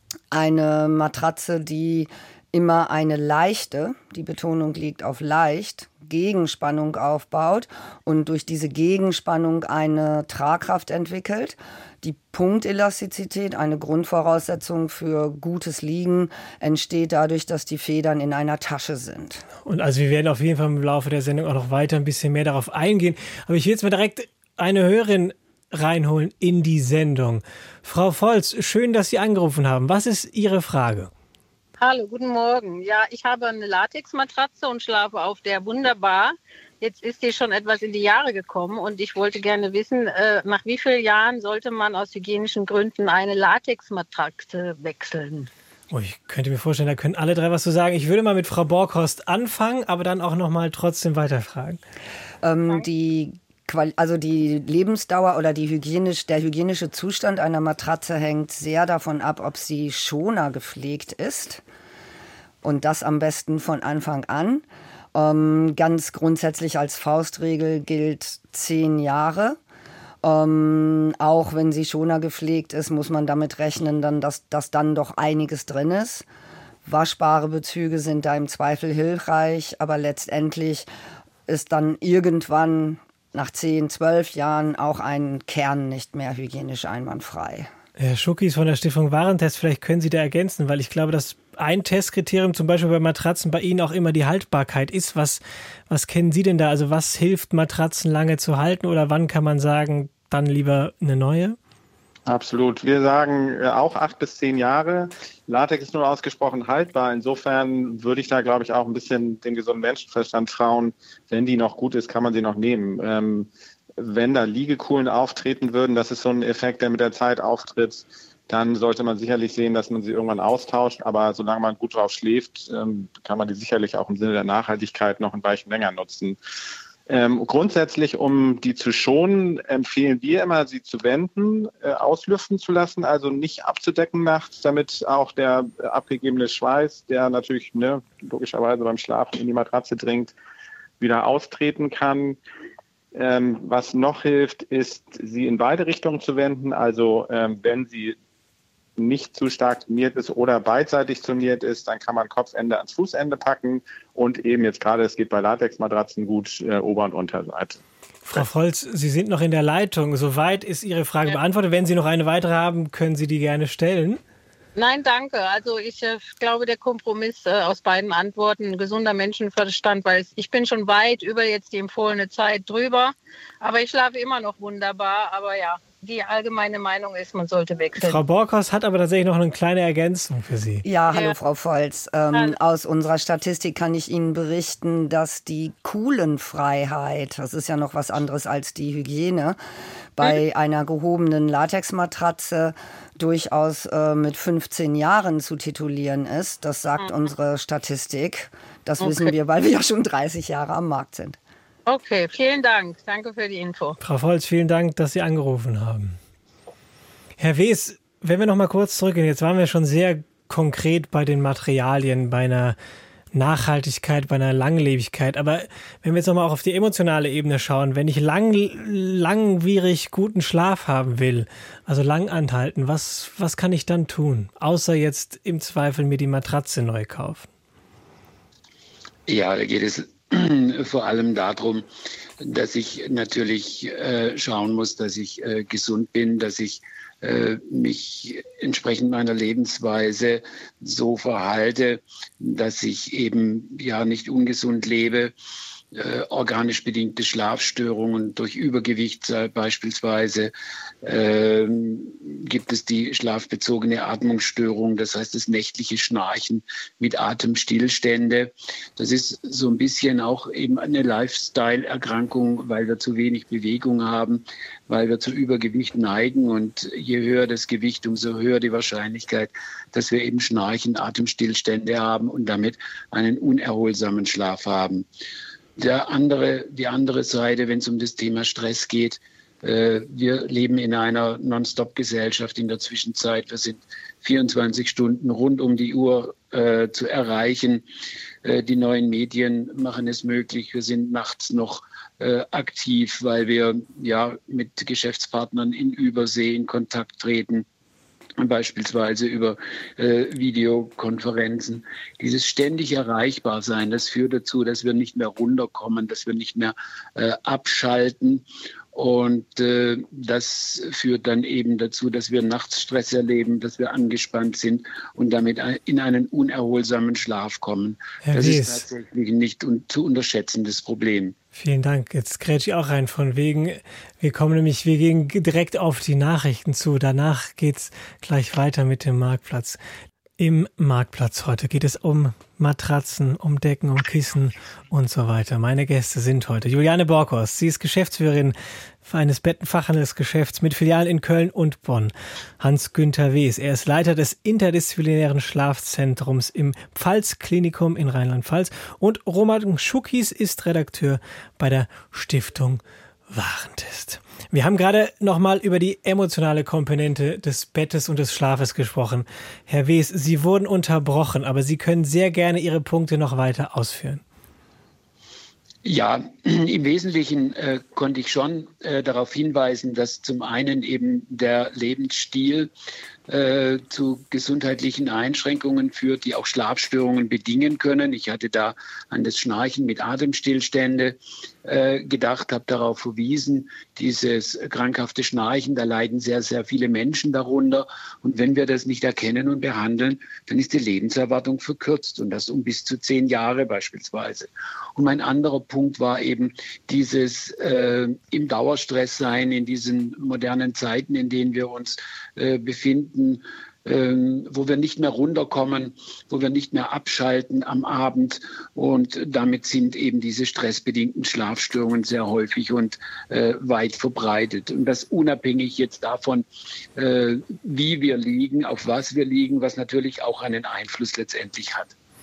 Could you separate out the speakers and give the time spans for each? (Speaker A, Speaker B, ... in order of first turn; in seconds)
Speaker A: 0.3-19.5, 52.4-61.6, 62.6-69.6, 70.2-76.3, 76.8-80.9, 81.5-87.7, 180.8-189.6, 190.2-201.4
Speaker B: 19.7-31.1, 45.9-51.8, 88.0-101.6, 158.3-164.2, 178.0-180.8, 204.0-206.2, 207.4-212.8, 213.3-227.5, 318.2-318.9, 321.6-329.8, 330.4-364.2
Speaker C: 31.8-45.5, 164.8-178.2, 199.0-199.3, 201.9-204.0
Speaker D: 102.3-126.4, 127.1-140.3, 141.0-142.4, 143.2-148.2, 149.0-157.8
Speaker E: 229.3-231.9, 232.4-245.3, 245.9-250.5, 251.0-275.1, 275.8-287.9, 288.4-297.7, 298.4-321.4, 365.8-372.7, 373.3-416.4, 417.0-421.9